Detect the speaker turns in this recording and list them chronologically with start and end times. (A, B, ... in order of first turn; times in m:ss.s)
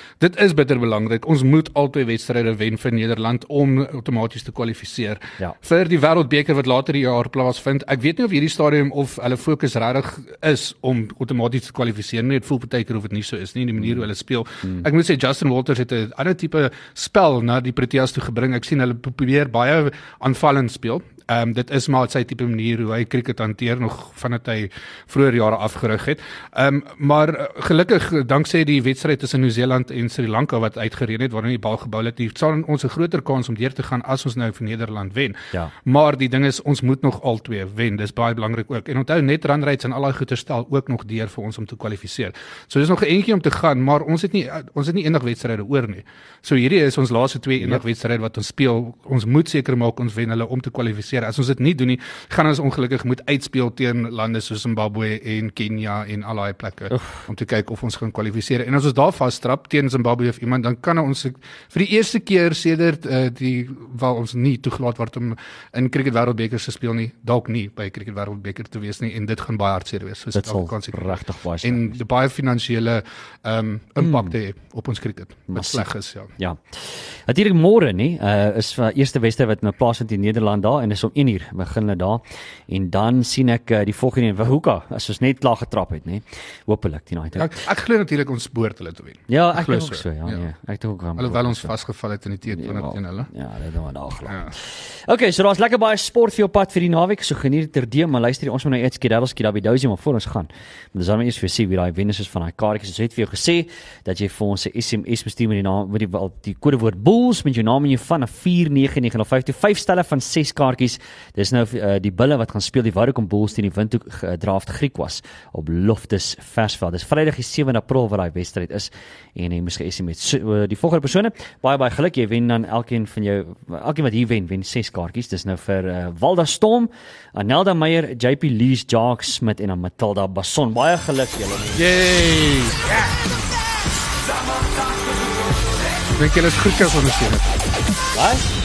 0:00.2-1:16.3 A
0:13.8-0:14.1 B
0:56.9-0:57.2 B
1:10.3-1:12.0 B
1:14.0-1:14.3 B
1:15.5-1:27.5 B
1:27.4-1:30.4 A
1:29.3-1:31.7 B
1:31.2-1:33.3 A
1:32.5-2:11.8 B
2:11.8-2:13.2 A
2:16.2-2:17.6 A
2:18.1-2:18.5 B